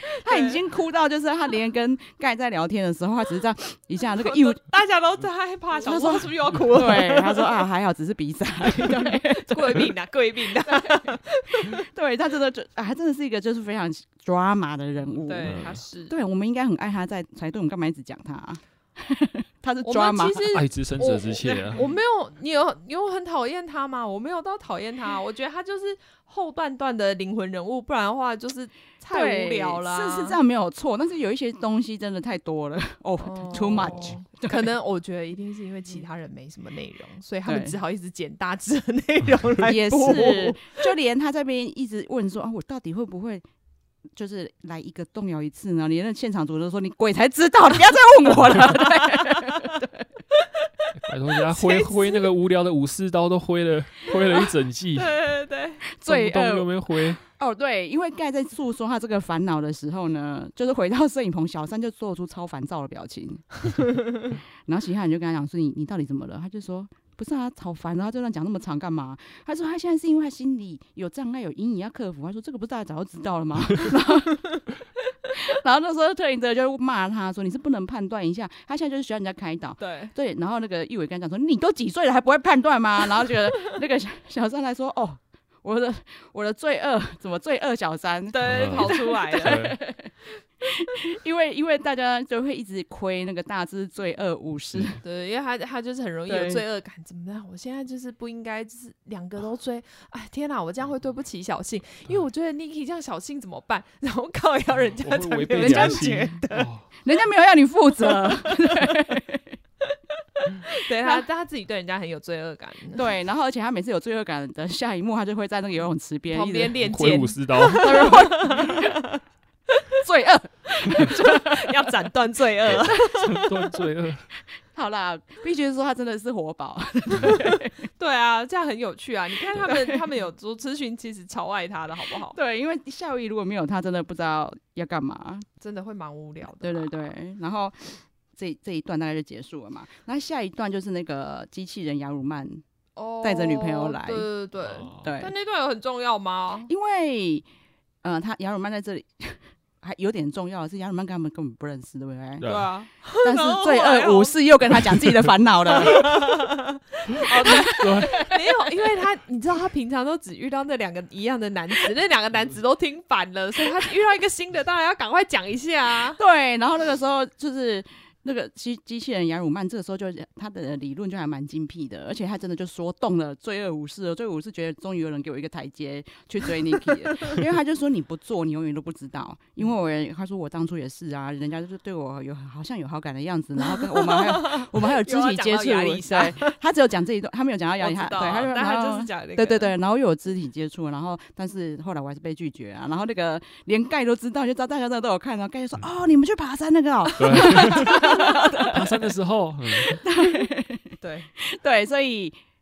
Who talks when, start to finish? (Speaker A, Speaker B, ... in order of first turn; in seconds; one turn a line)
Speaker A: 0.2-4.6
Speaker B: 0.2-0.6
Speaker B: 4.2-7.6
Speaker A: 5.8-9.9
Speaker B: 8.7-11.8
Speaker A: 10.7-11.1
Speaker A: 11.7-20.5
Speaker B: 15.2-16.1
Speaker C: 15.4-15.8
Speaker B: 19.8-30.4
Speaker C: 20.5-21.8
Speaker A: 29.1-34.7
Speaker B: 33.2-40.8
Speaker A: 37.5-37.8
Speaker A: 39.7-43.4
Speaker A: 44.1-50.1
Speaker B: 48.8-49.7
Speaker C: 51.0-55.1
Speaker B: 51.6-52.2
Speaker B: 55.0-55.8
Speaker A: 56.0-63.6
Speaker C: 56.0-57.2
Speaker A: 64.7-74.6
Speaker A: 75.3-95.0
Speaker B: 79.8-80.1
Speaker B: 88.3-89.7
Speaker C: 88.4-89.8
Speaker B: 95.0-106.7
Speaker A: 96.3-96.6
Speaker C: 105.0-106.8
Speaker A: 105.5-106.1
Speaker A: 107.0-109.6
Speaker B: 108.4-108.8
Speaker B: 110.6-113.0
Speaker A: 113.0-116.8
Speaker B: 116.3-119.2
Speaker C: 116.8-118.3
Speaker A: 117.8-119.0
Speaker A: 120.0-121.7
Speaker B: 120.7-123.5
Speaker C: 122.7-124.3
Speaker A: 124.6-127.9
Speaker B: 127.2-132.4
Speaker A: 129.6-130.0
Speaker A: 132.3-135.5
Speaker B: 135.6-136.9
Speaker A: 136.6-142.6
Speaker B: 143.0-146.7
Speaker A: 143.2-144.3
Speaker C: 144.6-145.0
Speaker A: 145.0-145.3
Speaker A: 146.7-147.5
Speaker A: 148.0-152.5
Speaker C: 152.4-152.7
Speaker B: 152.4-155.1
Speaker A: 153.2-156.4
Speaker B: 155.7-166.2
Speaker A: 157.3-158.7
Speaker C: 157.7-158.3
Speaker A: 166.2-199.1
Speaker B: 183.7-186.6
Speaker B: 187.8-189.7
Speaker C: 197.2-200.0
Speaker A: 199.8-202.4
Speaker B: 201.0-201.3